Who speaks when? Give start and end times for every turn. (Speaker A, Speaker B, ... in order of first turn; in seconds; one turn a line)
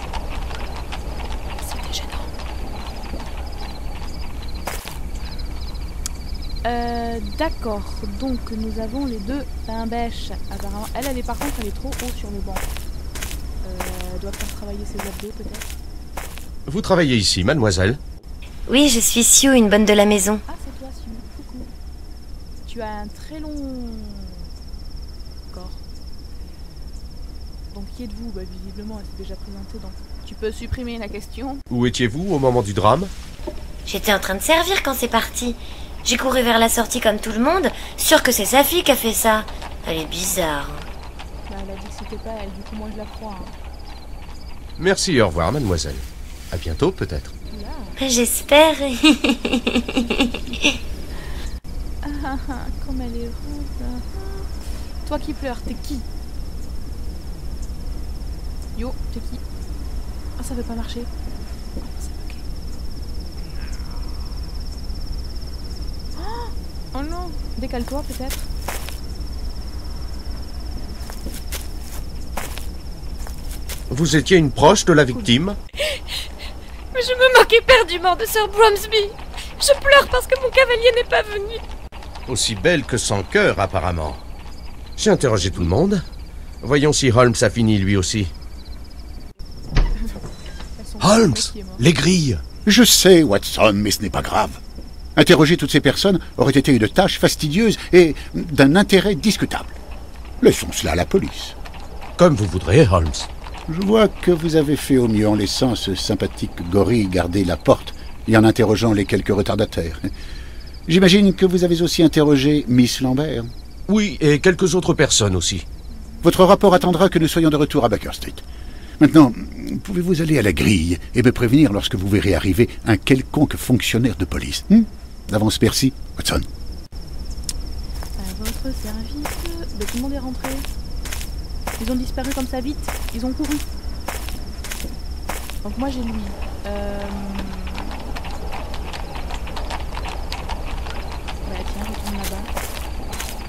Speaker A: 1.6-2.4
Speaker A: 6.6-12.7
Speaker A: 13.6-15.7
Speaker B: 16.7-18.0
Speaker C: 18.7-20.4
Speaker A: 20.5-21.7
Speaker A: 22.7-24.5
Speaker A: 25.5-25.8
Speaker A: 27.7-31.6
Speaker B: 31.7-33.1
Speaker C: 33.9-40.9
Speaker A: 41.5-43.5
Speaker B: 44.8-47.3
Speaker A: 47.5-48.0
Speaker C: 48.0-50.3
Speaker A: 52.0-54.5
Speaker A: 55.0-56.0
Speaker A: 58.8-59.4
Speaker A: 60.4-61.1
Speaker A: 61.8-62.4
Speaker A: 66.2-68.5
Speaker B: 73.9-75.6
Speaker A: 75.1-75.3
Speaker D: 76.9-81.6
Speaker B: 82.3-84.2
Speaker B: 85.0-86.0
Speaker B: 86.6-88.3
Speaker A: 90.8-91.8
Speaker B: 91.0-92.4
Speaker E: 92.7-94.6
Speaker E: 95.2-99.8
Speaker E: 100.4-101.6
Speaker B: 102.2-103.3
Speaker E: 103.7-110.1
Speaker E: 110.9-113.5
Speaker B: 113.9-115.7
Speaker A: 115.9-117.3
Speaker E: 116.2-118.4
Speaker E: 119.0-126.5
Speaker A: 128.2-130.7
Speaker A: 131.8-133.7
Speaker A: 135.6-138.1
Speaker A: 141.4-142.5